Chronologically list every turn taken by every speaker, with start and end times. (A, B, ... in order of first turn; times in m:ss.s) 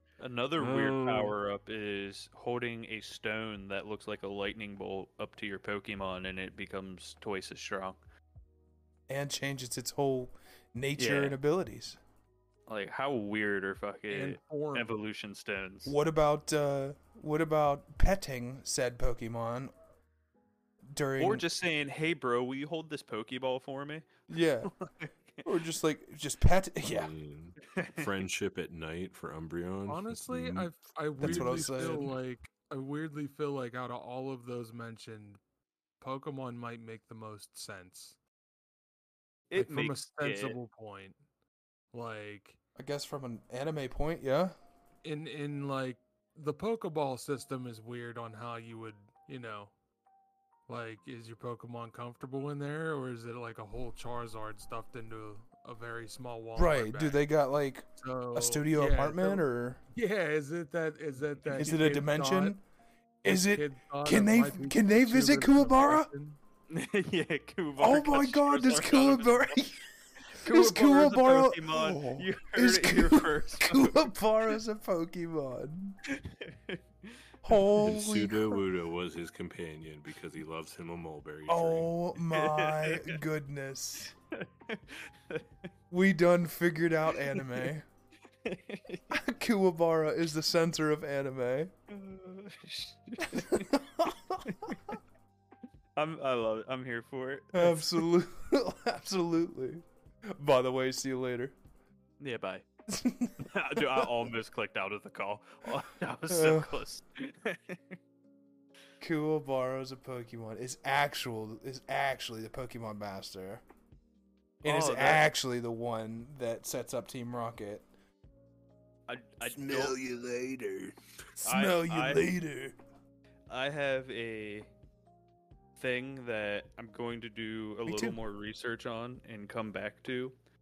0:00.2-0:08.0 A
0:00.6-0:01.4 B
0:09.1-0:12.0 C
0:11.0-0:11.4 A
0:12.7-0:15.9 A
0:14.1-0:14.9 D
0:15.9-0:19.7 C
0:20.9-0:21.4 C
0:21.2-0:24.1 A
0:24.3-0:24.7 C
0:24.6-0:25.4 A
0:25.4-0:27.1 C
0:26.8-0:32.1 B
0:27.6-0:28.1 A
0:29.9-0:35.4 D
0:31.2-0:32.1 C
0:36.0-0:38.2 D
0:39.5-0:40.6 A
0:39.6-0:41.2 D
0:41.9-0:42.6 D
0:42.8-0:44.6 C
0:45.0-0:49.7 D
0:50.7-0:57.2 D
0:56.6-0:59.8 C
0:58.0-1:02.6 D
1:01.5-1:02.6 C
1:03.2-1:06.1 C
1:03.2-1:06.4 D
1:06.7-1:09.6 A
1:07.8-1:16.0 C
1:10.3-1:14.1 A
1:16.0-1:17.2 A
1:17.4-1:18.6 C
1:17.8-1:22.0 B
1:21.5-1:24.1 C
1:22.3-1:23.2 A
1:24.3-1:25.4 A
1:25.9-1:27.8 C
1:27.3-1:27.6 A
1:28.4-1:29.2 A
1:29.1-1:31.7 C
1:31.9-1:33.8 A
1:33.3-1:34.4 C
1:34.4-1:35.0 A
1:36.0-1:38.0 A
1:37.5-1:41.6 C
1:42.2-1:42.6 A
1:42.9-1:44.1 C
1:43.4-1:48.0 A
1:46.3-1:46.8 C
1:49.0-1:53.6 C
1:54.6-1:57.8 C
1:54.6-1:55.3 A
1:59.1-2:00.0 A
1:59.4-2:02.8 C
2:01.4-2:02.3 A
2:03.5-2:04.7 A
2:05.8-2:10.3 A
2:07.9-2:08.2 C